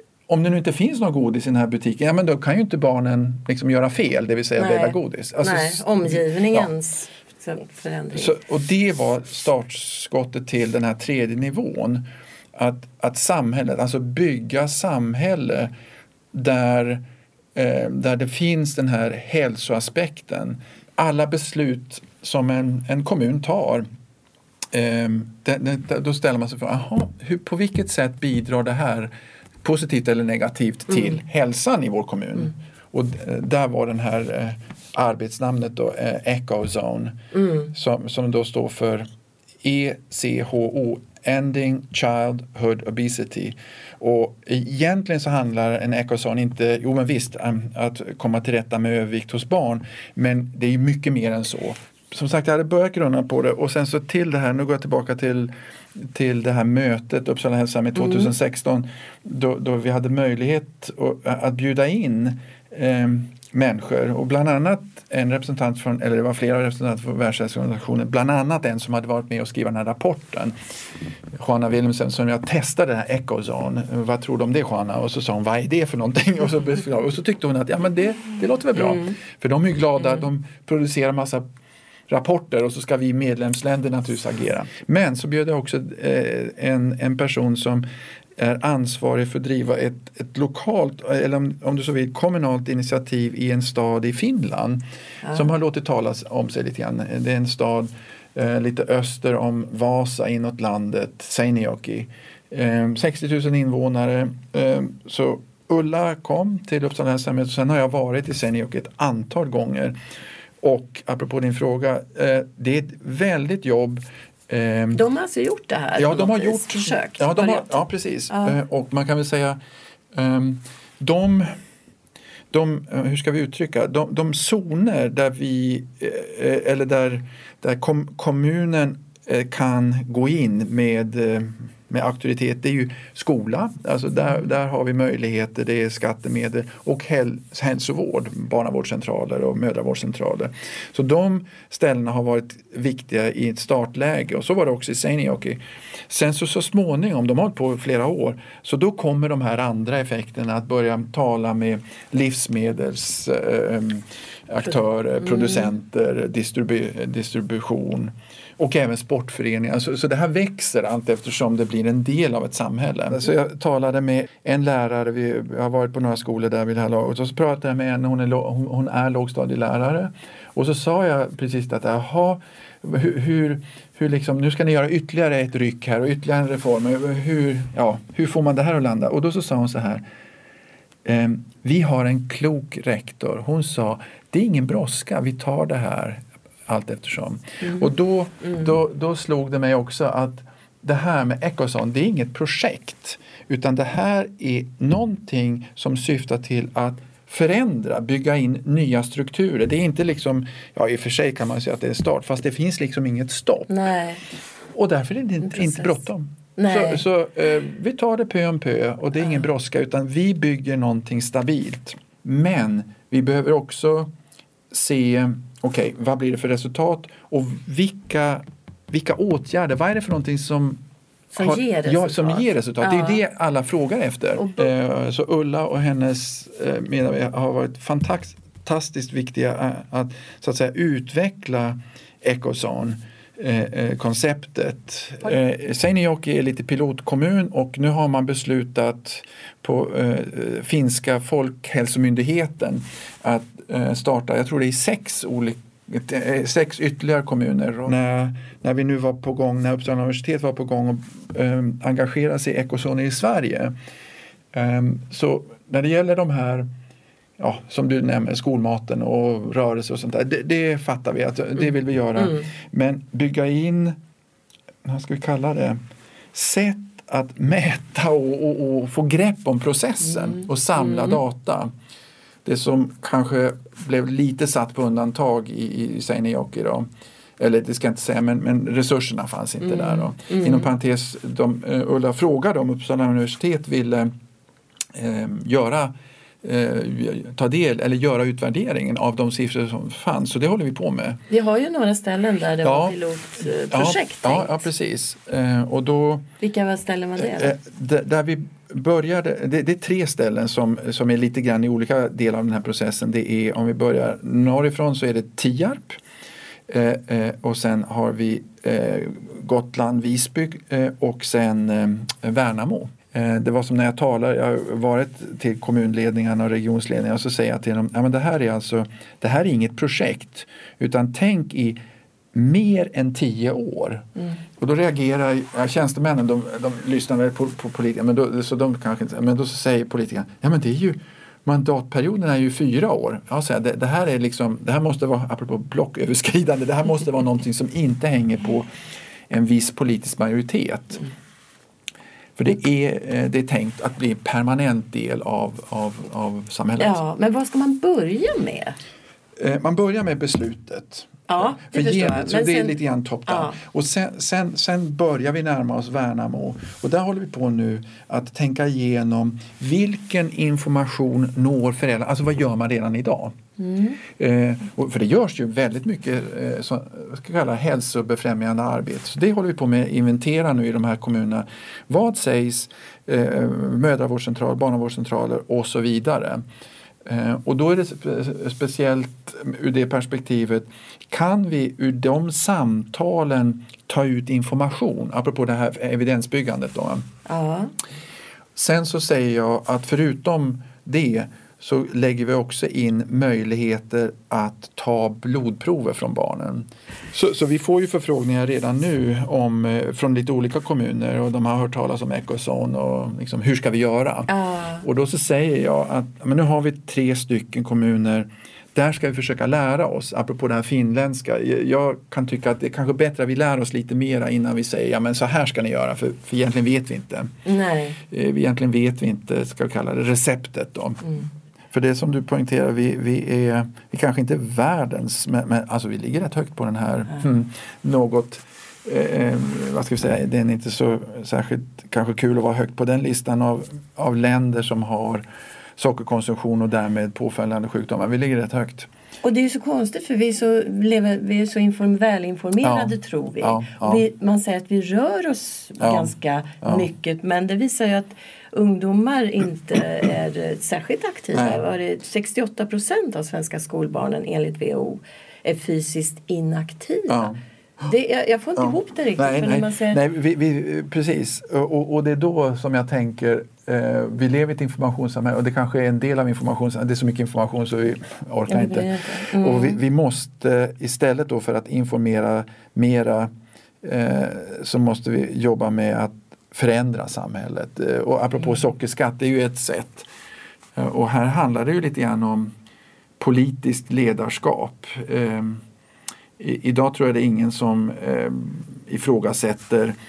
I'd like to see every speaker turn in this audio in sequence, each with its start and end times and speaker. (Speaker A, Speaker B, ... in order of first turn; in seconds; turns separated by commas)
Speaker A: 0.3-6.7, Speaker B: 4.5-8.3, Speaker A: 8.1-15.7, Speaker A: 16.3-17.0, Speaker A: 17.5-23.9, Speaker A: 24.7-29.1, Speaker A: 29.6-39.1, Speaker B: 37.3-37.7, Speaker A: 39.6-70.5, Speaker B: 58.0-58.3, Speaker A: 71.3-81.5, Speaker B: 78.8-79.1, Speaker A: 82.1-87.8, Speaker A: 88.4-110.0, Speaker A: 110.6-115.0, Speaker B: 114.9-117.8, Speaker A: 116.0-119.6, Speaker B: 118.3-118.5, Speaker A: 120.1-121.5, Speaker A: 122.5-180.0, Speaker A: 181.0-203.8, Speaker B: 187.6-187.9, Speaker B: 203.7-204.2, Speaker A: 204.7-214.1, Speaker B: 205.4-206.0, Speaker B: 206.6-207.0, Speaker A: 214.7-220.8, Speaker B: 221.3-223.2, Speaker A: 221.4-253.7, Speaker B: 224.4-224.7, Speaker A: 254.5-256.7, Speaker A: 257.4-264.0, Speaker A: 264.8-265.8, Speaker A: 266.3-271.7, Speaker B: 270.2-271.2, Speaker A: 272.4-276.9, Speaker A: 277.4-284.1, Speaker B: 279.6-280.6, Speaker A: 284.9-291.2, Speaker B: 291.3-294.6, Speaker A: 292.6-293.0, Speaker A: 293.7-296.3, Speaker B: 296.4-297.5, Speaker A: 297.2-306.0, Speaker A: 306.7-321.8, Speaker A: 322.3-338.7, Speaker A: 339.3-341.1, Speaker A: 342.4-347.0, Speaker B: 346.8-348.8, Speaker A: 349.4-363.4, Speaker B: 351.3-353.6, Speaker B: 363.6-364.0, Speaker A: 364.1-376.4, Speaker A: 377.0-387.1, Speaker B: 387.2-387.7, Speaker A: 388.5-417.4, Speaker B: 404.3-404.8, Speaker B: 417.4-418.0, Speaker A: 418.1-435.2, Speaker A: 435.8-438.9, Speaker B: 439.2-457.3, Speaker A: 442.6-444.0, Speaker A: 445.8-446.9, Speaker A: 451.3-451.6, Speaker A: 457.1-457.9, Speaker B: 457.9-460.0, Speaker A: 458.6-473.3, Speaker B: 468.5-469.8, Speaker A: 473.8-480.1, Speaker A: 480.8-482.5, Speaker A: 483.2-485.6, Speaker A: 486.4-489.9